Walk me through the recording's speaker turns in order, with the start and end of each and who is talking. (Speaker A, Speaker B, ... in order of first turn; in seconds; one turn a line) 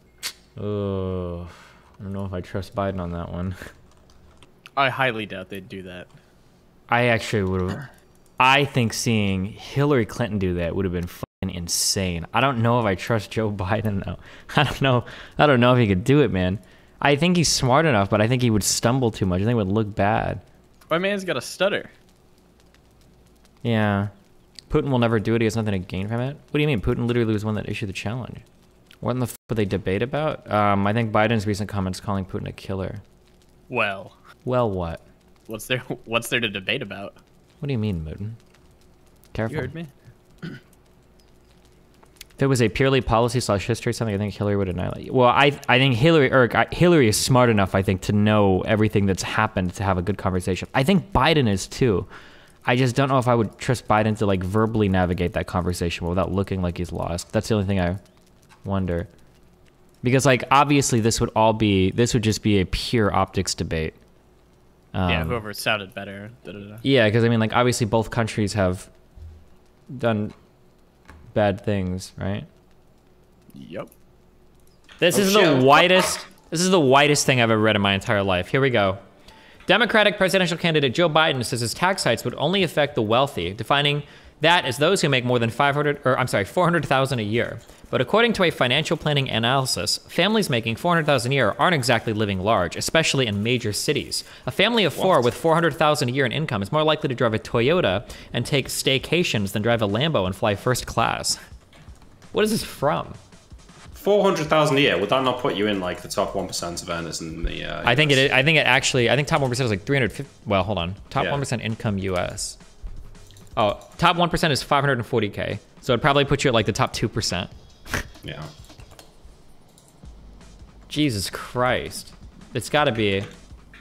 Speaker A: 0.6-3.6
Speaker B: 4.8-6.1
Speaker A: 6.9-7.8
Speaker A: 8.4-20.4
Speaker B: 20.9-21.9
Speaker A: 23.6-24.1
Speaker A: 24.7-28.4
Speaker A: 29.0-33.0
Speaker B: 33.7-34.2
Speaker A: 34.4-35.0
Speaker B: 35.5-37.2
Speaker A: 37.6-38.4
Speaker A: 39.3-39.8
Speaker B: 39.5-39.9
Speaker A: 42.4-52.1
Speaker A: 52.6-58.0
Speaker A: 58.6-59.1
Speaker A: 60.0-64.0
Speaker A: 64.9-65.4
Speaker B: 65.0-66.8
Speaker A: 66.8-68.9
Speaker A: 69.9-70.3
Speaker A: 71.3-72.5
Speaker B: 73.5-73.9
Speaker A: 75.0-79.0
Speaker C: 75.1-75.8
Speaker A: 79.7-101.4
Speaker C: 94.9-95.2
Speaker A: 102.3-103.2
Speaker C: 103.9-108.3
Speaker A: 107.8-112.6
Speaker C: 111.2-111.5
Speaker A: 113.5-117.5
Speaker C: 118.2-118.5
Speaker A: 120.9-123.3